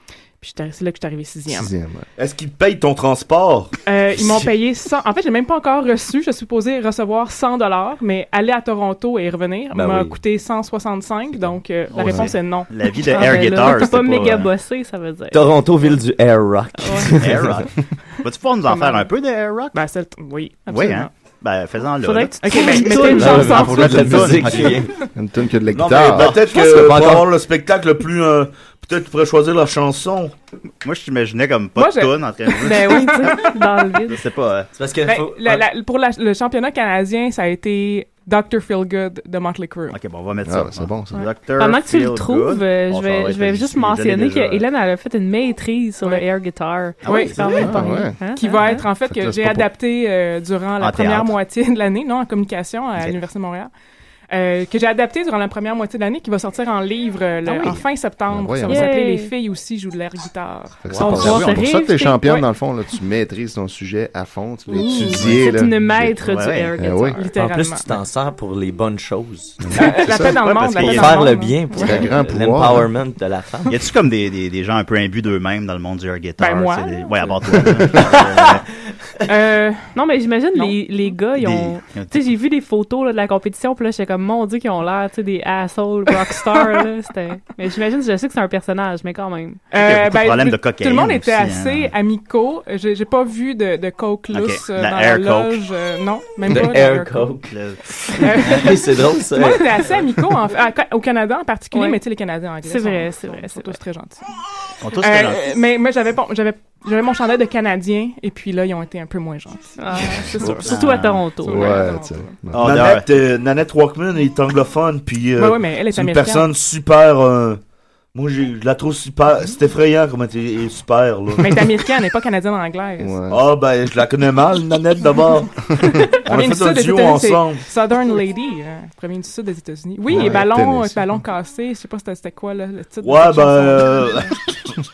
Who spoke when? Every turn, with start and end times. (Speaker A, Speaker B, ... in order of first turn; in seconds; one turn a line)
Speaker A: 0.4-1.7
Speaker B: 1.5-2.0
Speaker C: 2.2-3.7
Speaker A: 3.9-13.7
Speaker D: 9.7-10.2
Speaker E: 11.9-14.5
Speaker B: 12.0-12.3
Speaker F: 13.1-15.5
Speaker D: 15.3-17.6
Speaker F: 16.8-17.1
Speaker E: 17.1-19.8
Speaker A: 18.6-19.1
Speaker A: 19.7-21.1
Speaker E: 20.7-25.1
Speaker F: 22.0-24.0
Speaker A: 22.4-24.8
Speaker D: 22.9-24.9
Speaker B: 25.1-26.4
Speaker C: 25.7-30.3
Speaker E: 26.1-26.4
Speaker D: 26.5-27.3
Speaker E: 30.8-33.5
Speaker A: 31.8-33.6
Speaker F: 32.6-34.2
Speaker E: 34.0-34.7
Speaker D: 34.8-35.6
Speaker A: 35.0-40.0
Speaker E: 39.9-44.6
Speaker B: 40.4-41.2
Speaker F: 41.2-48.8
Speaker E: 47.0-47.8
Speaker A: 47.0-47.6
Speaker B: 47.5-48.2
Speaker A: 48.3-53.7
Speaker B: 48.8-49.7
Speaker E: 50.8-51.3
Speaker A: 54.3-61.5
Speaker B: 58.3-58.9
Speaker F: 58.6-59.3
Speaker B: 60.8-66.2
Speaker F: 61.0-62.3
Speaker E: 61.0-61.5
Speaker A: 62.2-62.5
Speaker F: 64.7-67.3
Speaker E: 66.2-66.8
Speaker B: 66.8-67.2
Speaker A: 67.1-67.8
Speaker D: 67.3-69.6
Speaker B: 69.6-70.4
Speaker A: 69.7-71.6
Speaker E: 70.1-71.3
Speaker D: 70.8-73.8
Speaker B: 71.8-72.9
Speaker E: 73.7-78.7
Speaker A: 76.4-77.7
Speaker A: 79.2-79.9
Speaker F: 79.9-89.6
Speaker E: 81.3-82.3
Speaker A: 89.7-97.3
Speaker E: 89.7-91.9
Speaker E: 94.3-95.6
Speaker D: 96.5-99.9
Speaker E: 97.5-98.6
Speaker A: 98.2-104.3
Speaker F: 101.7-102.0
Speaker F: 102.6-103.8
Speaker E: 104.8-105.4
Speaker A: 105.0-112.4
Speaker F: 109.8-111.8
Speaker E: 110.7-111.2
Speaker B: 111.4-112.9
Speaker E: 112.5-113.1
Speaker C: 112.6-117.6
Speaker A: 115.4-116.5
Speaker C: 118.1-121.6
Speaker A: 121.4-123.2
Speaker B: 123.0-123.4
Speaker C: 123.3-125.7
Speaker A: 126.0-134.3
Speaker C: 126.2-127.6
Speaker B: 130.1-131.1
Speaker C: 133.0-134.3